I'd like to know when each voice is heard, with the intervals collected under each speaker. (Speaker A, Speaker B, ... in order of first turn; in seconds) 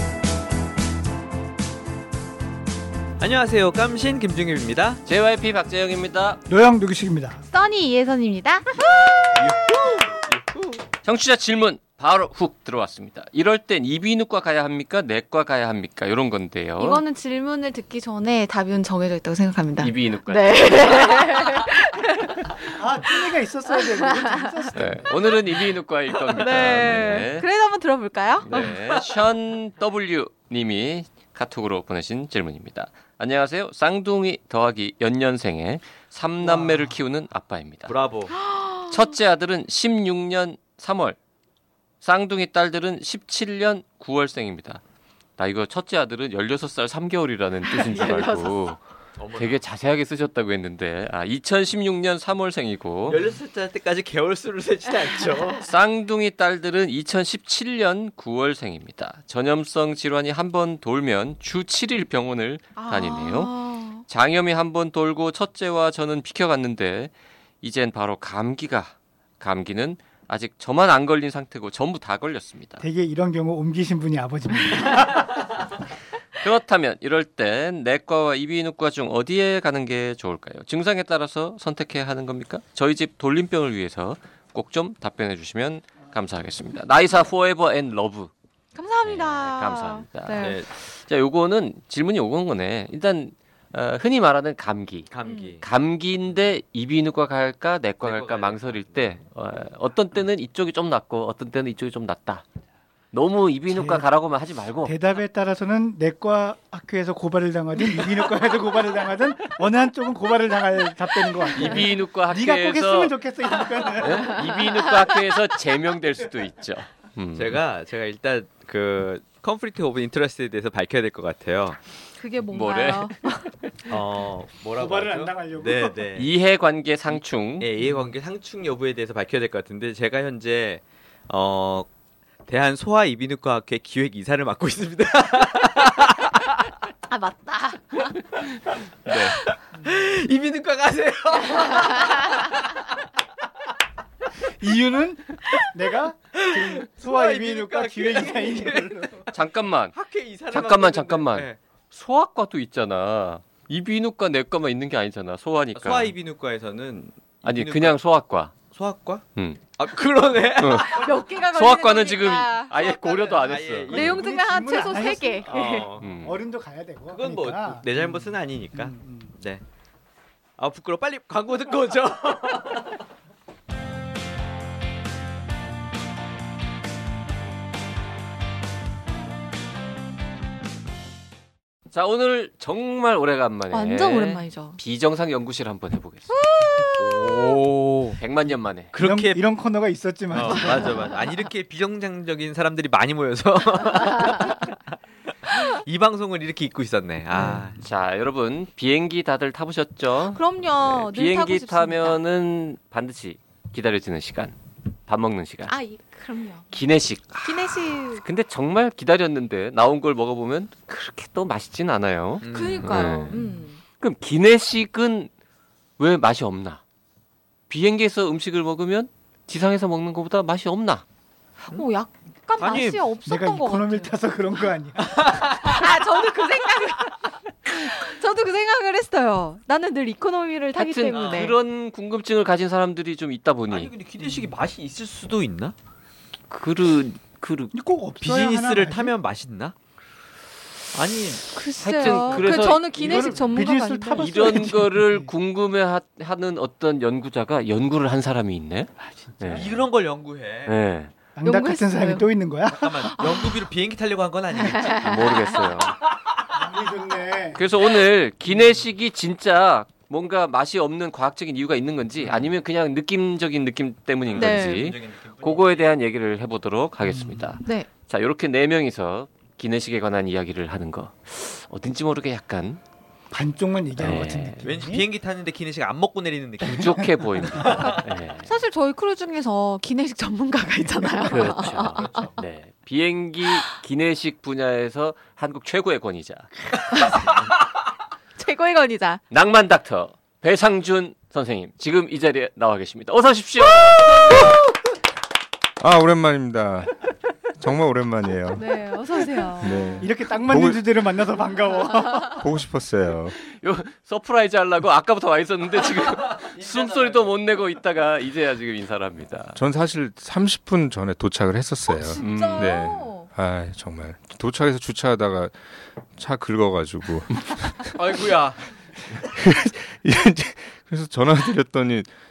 Speaker A: 3.2-5.0, 36.4-36.9, 37.9-38.4, 49.2-49.6, 53.1-55.7, 90.4-90.7, 95.1-95.7, 98.0-99.0, 117.3-121.8, 123.9-126.3, 127.6-131.9, 132.5-136.6, 139.1-142.9, 146.3-149.3, 149.9-151.6, 155.8-158.0, 158.7-159.2, 159.8-161.1, 162.7-164.2, 165.4-166.1, 167.1-169.6, 170.6-172.9, 187.0-188.2, 188.9-189.4, 190.3-194.8, 195.4-197.8, 212.4-213.3, 222.6-223.1, 225.2-225.7, 231.1-231.6, 233.7-235.7, 238.2-239.7, 240.9-241.5, 249.5-250.8, 252.7-255.3, 262.2-262.5, 264.3-265.9, 274.6-278.0, 281.6-282.4, 318.0-318.6
Speaker B: 5.1-6.4, 11.1-17.0, 19.8-21.6, 24.8-27.5, 28.4-37.9, 38.9-41.2, 42.0-44.8, 45.4-48.8, 49.4-53.2, 55.6-72.8, 76.4-88.3, 89.0-95.1, 95.6-102.5, 103.1-105.0, 111.5-113.2, 113.9-117.6, 122.5-123.4, 126.2-127.7, 149.3-149.9, 150.5-156.1, 157.4-158.6, 159.4-159.7, 160.5-164.2, 166.0-166.4, 181.9-186.3, 188.2-188.9, 197.8-204.6, 205.1-205.7, 206.7-213.4, 214.0-215.3, 216.0-216.8, 217.7-221.0, 230.7-233.9, 236.5-237.7, 241.8-243.5, 244.2-249.7, 250.7-251.1, 255.0-256.0, 257.6-272.8, 274.0-274.6, 276.6-278.5, 281.3-286.6, 289.3-294.4, 303.4-309.6, 312.2-312.8
Speaker C: 6.5-7.4, 22.6-25.1, 72.8-75.4, 103.7-104.1, 104.8-114.8, 124.8-126.0, 144.6-149.3, 164.0-169.3, 189.0-191.1, 223.3-225.5, 234.2-234.5, 237.7-239.2, 242.3-245.3, 251.4-253.2, 256.5-257.6, 273.3-275.1, 300.0-302.4
Speaker D: 7.5-9.8, 16.8-25.3, 26.3-28.8, 38.3-39.1, 47.7-48.6, 62.8-64.0, 88.8-90.6, 95.3-95.5, 122.2-123.5, 137.1-138.2, 141.7-142.2, 160.8-162.7, 163.9-165.9, 183.7-184.8, 186.3-187.6, 194.1-194.6, 200.3-202.2, 205.7-206.7, 207.4-208.2, 212.5-213.8, 221.6-224.1, 225.6-231.6, 241.6-244.3, 251.4-252.3, 253.2-253.5, 254.8-255.6, 264.4-264.9, 278.4-282.4, 286.9-287.4, 288.4-289.2, 293.9-294.5, 298.6-300.1, 311.9-313.3
Speaker E: 295.8-297.0, 297.6-298.7, 299.6-300.8, 302.3-303.4, 309.6-315.6, 316.1-318.0, 319.1-322.1